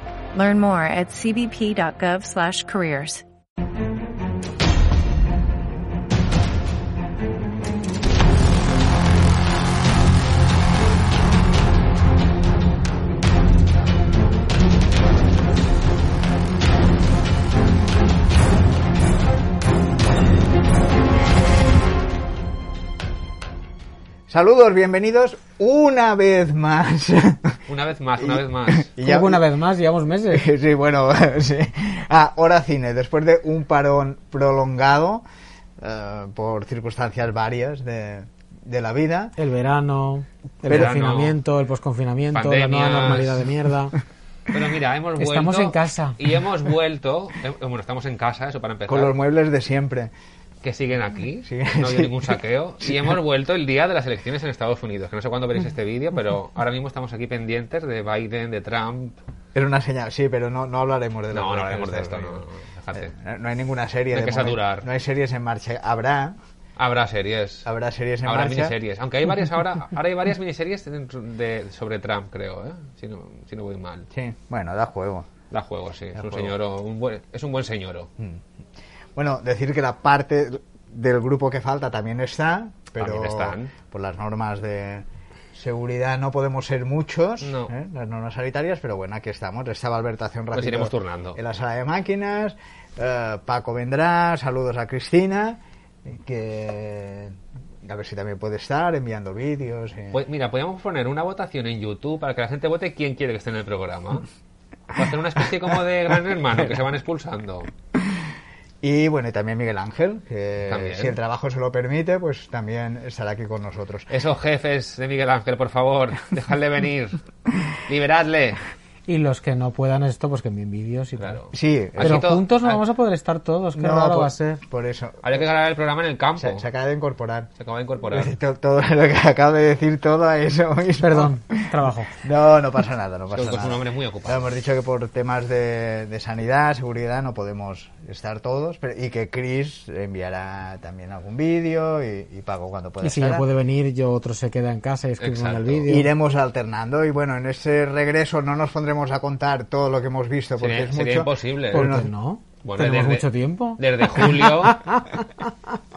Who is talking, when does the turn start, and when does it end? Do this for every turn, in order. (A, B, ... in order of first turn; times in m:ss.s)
0:00.3-0:03.2 A
0:24.3-0:27.6 B
0:27.7-0:28.9 C
0:28.2-0:29.4 B
0:29.0-0:30.5 D
0:30.3-0:35.2 B
0:35.8-0:39.3 B
0:39.4-0:44.0 D
0:40.7-0:41.0 B
0:40.7-0:41.4 C
0:42.3-0:43.4 C
0:44.5-0:49.1 C
0:45.2-0:46.2 D
0:48.8-0:50.1 B
0:50.6-0:59.1 C
0:51.4-0:53.1 B
0:59.5-1:06.4 B
1:01.3-1:03.1 C
1:04.1-1:04.9 C
1:06.8-1:07.7 C
1:07.6-1:08.8 B
1:08.2-1:14.0 C
1:14.1-1:15.3 B
1:15.5-1:18.1 C
1:16.1-1:16.5 B
1:18.2-1:18.4 B
1:19.2-1:40.2 B
1:23.0-1:23.7 C
1:27.4-1:27.7 C
1:30.5-1:31.4 C
1:40.1-1:44.2 C
1:44.9-1:47.7 C
1:48.8-1:54.1 B
1:50.7-1:51.2 C
1:54.1-1:57.2 C
1:57.8-1:58.6 C
1:59.1-2:01.4 D
2:01.2-2:02.8 C
2:01.5-2:02.3 B
2:02.0-2:04.6 D
2:03.7-2:05.4 B
2:05.2-2:06.6 C
2:06.4-2:07.5 B
2:07.6-2:08.3 C
2:08.1-2:23.5 B
2:11.0-2:12.1 D
2:13.3-2:14.5 C
2:23.0-2:26.1 D
2:25.2-2:25.9 C
2:25.9-2:32.1 B
2:30.6-2:31.9 C
2:31.7-2:35.5 D
2:32.6-2:34.8 C